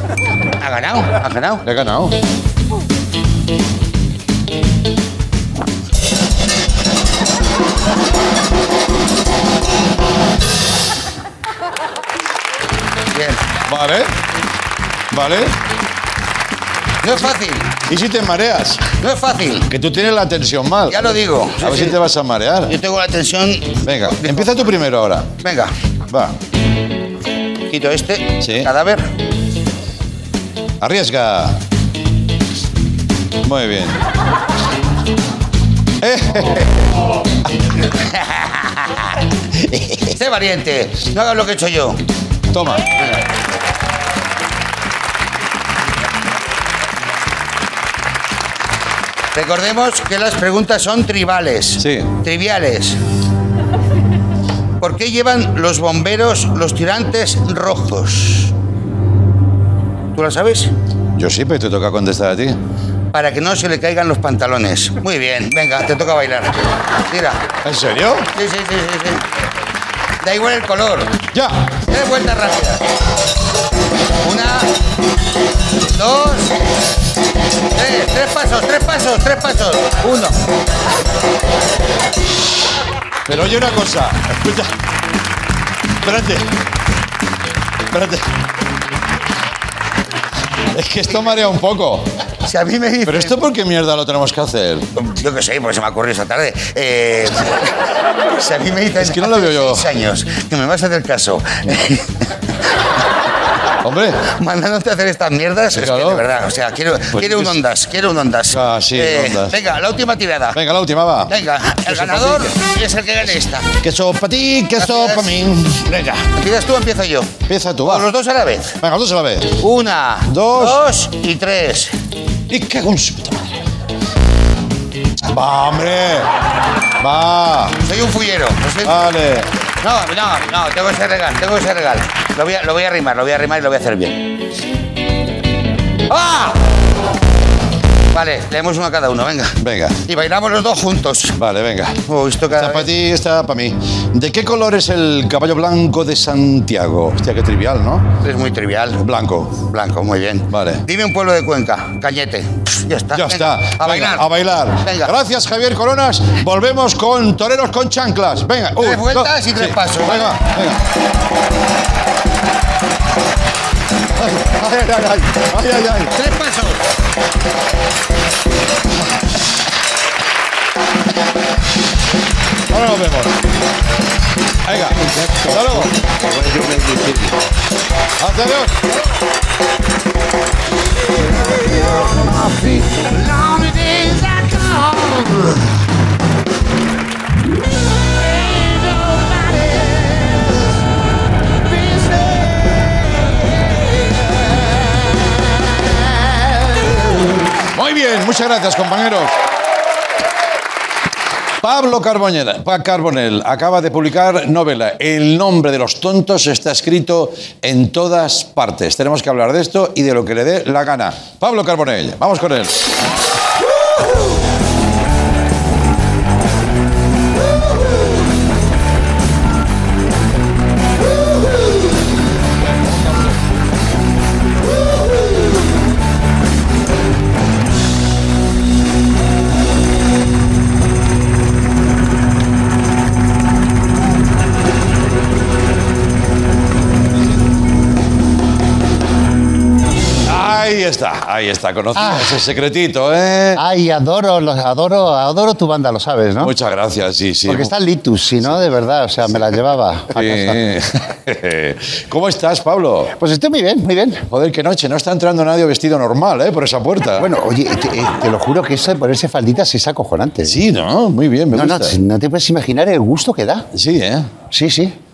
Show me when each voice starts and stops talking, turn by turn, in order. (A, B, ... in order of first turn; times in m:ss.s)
0:00.6-0:01.6 A
0:01.6-0:02.2 B
0:13.1-0:13.4 A
0:13.7-0:14.1 B
0:15.1-0:15.6 B
0:17.0-0:17.8 A
0:17.9-0:18.9 B
0:18.9-0:19.7 A
0:19.7-0:22.7 B
0:20.9-0:22.0 A
0:22.7-0:24.6 A
0:23.8-0:25.4 B
0:25.4-0:25.7 A
0:26.1-0:26.4 B
0:27.7-0:29.1 A
0:28.4-0:28.7 B
0:30.8-0:31.6 B
0:33.4-0:34.0 B
0:36.0-0:36.7 B
0:37.9-0:39.1 A
0:39.9-0:42.0 A
0:42.5-0:42.9 B
0:49.4-0:53.0 A
0:51.8-0:52.1 B
0:54.8-0:58.5 A
1:00.2-1:00.7 A
1:01.2-1:02.6 B
1:03.1-1:06.6 A
1:07.1-1:07.5 A
1:07.6-1:08.3 B
1:08.3-1:09.2 A
1:10.2-1:11.2 A
1:11.3-1:11.7 B
1:11.9-1:12.8 A
1:14.2-1:14.7 A
1:15.9-1:16.6 A
1:17.7-1:20.4 A
1:23.3-1:24.7 B
1:26.0-1:26.6 B
1:27.9-1:28.3 B
1:30.7-1:32.1 B
1:32.4-1:33.4 A
1:33.0-1:34.9 B
1:35.0-1:37.7 A
1:38.4-1:42.2 A
1:39.0-1:39.9 B
1:43.8-1:44.3 B
1:44.2-1:50.6 A
1:45.7-1:46.2 B
1:47.1-1:47.6 B
1:48.5-1:49.6 B
1:50.5-1:52.6 B
1:51.3-1:53.8 A
1:53.8-1:56.0 B
1:54.8-1:58.8 A
1:57.5-1:58.1 B
1:58.8-1:59.6 B
1:59.6-2:02.0 A
2:00.3-2:00.8 B
2:02.5-2:03.5 B
2:05.3-2:06.3 B
2:07.0-2:07.8 B
2:07.8-2:09.1 A
2:08.8-2:09.5 B
2:09.8-2:14.3 A
2:16.1-2:16.6 A
2:18.1-2:21.4 A
2:19.6-2:20.0 B
2:21.4-2:28.1 B
2:22.1-2:22.9 A
2:28.2-2:29.0 A
2:29.0-2:29.6 B
2:29.6-2:35.1 A
2:30.5-2:30.8 B
2:33.1-2:40.8 B
2:38.8-2:40.4 A
2:44.2-2:46.1 B
2:46.1-2:46.8 A
2:52.7-2:53.4 B
2:54.6-2:55.9 B
2:56.6-2:57.1 C
2:58.2-2:58.8 B
3:01.7-3:05.6 A
3:08.3-3:10.6 A
3:11.7-3:12.5 A
3:17.7-3:19.4 B
3:21.6-3:32.8 B
4:00.2-4:03.6 B
4:02.0-4:02.4 C
4:03.6-4:06.5 C
4:06.4-4:07.7 B
4:07.5-4:10.6 C
4:09.3-4:09.6 B
4:10.1-4:13.1 B
4:13.2-4:14.2 C
4:14.3-4:17.3 B
4:17.2-4:20.6 C
4:20.4-4:22.0 B
4:21.5-4:23.7 C
4:23.7-4:24.3 B
4:24.5-4:25.0 C